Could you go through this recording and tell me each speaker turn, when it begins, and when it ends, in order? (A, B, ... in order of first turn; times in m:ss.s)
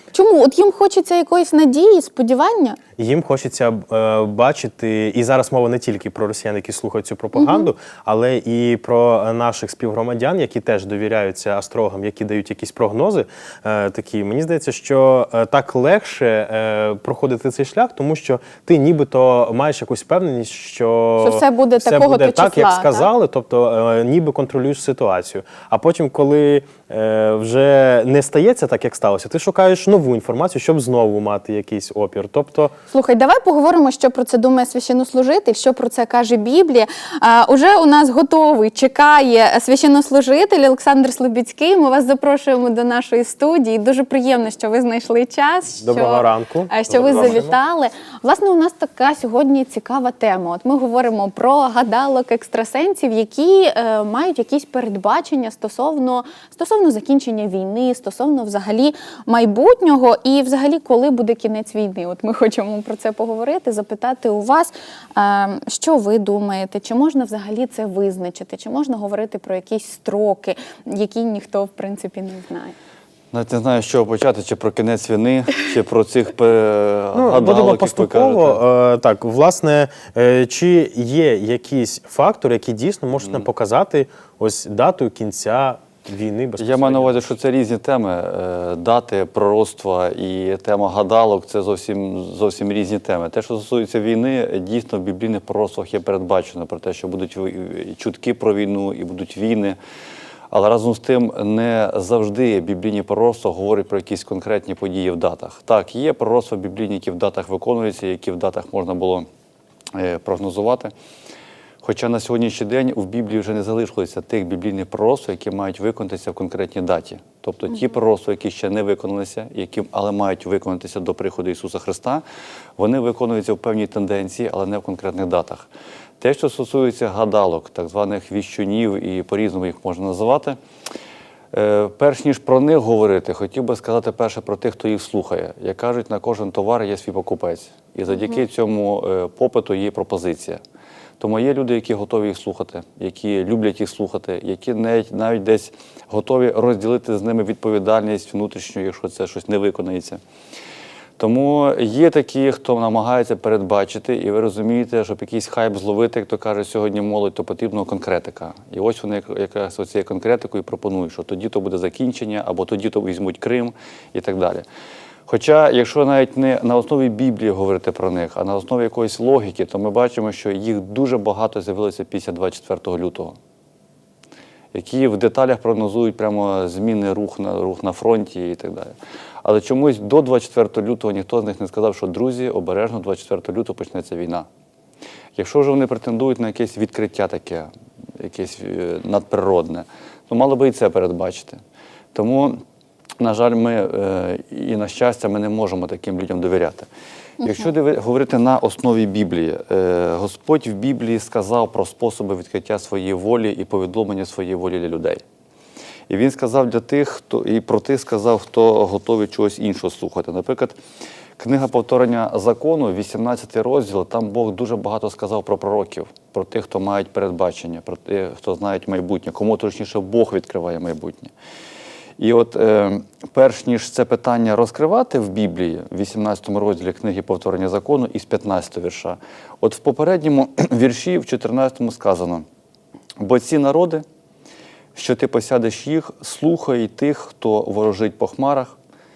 0:00.1-0:02.8 A
0:03.0-0:32.7 B
0:07.3-0:07.7 A
0:21.2-0:23.1 A
0:32.9-1:12.7 A
0:45.8-0:47.6 B
1:13.3-1:18.6 C
1:17.1-1:27.3 B
1:23.2-1:23.5 C
1:26.6-1:39.8 C
1:40.5-1:49.3 C
1:49.9-1:50.9 C
1:51.8-2:02.2 C
2:02.8-2:05.7 C
2:06.2-2:10.6 C
2:11.5-2:20.6 C
2:21.2-2:30.2 C
2:31.2-2:44.6 C
2:45.3-2:53.4 C
2:54.7-3:04.5 C
3:05.3-3:11.6 C
3:12.1-3:12.6 C
3:13.2-3:16.9 C
3:17.4-3:17.7 A
3:17.4-3:25.2 C
3:26.1-3:30.8 C
3:31.4-3:41.3 C
3:42.2-3:52.4 C
3:53.2-3:54.0 C
3:54.9-3:58.8 C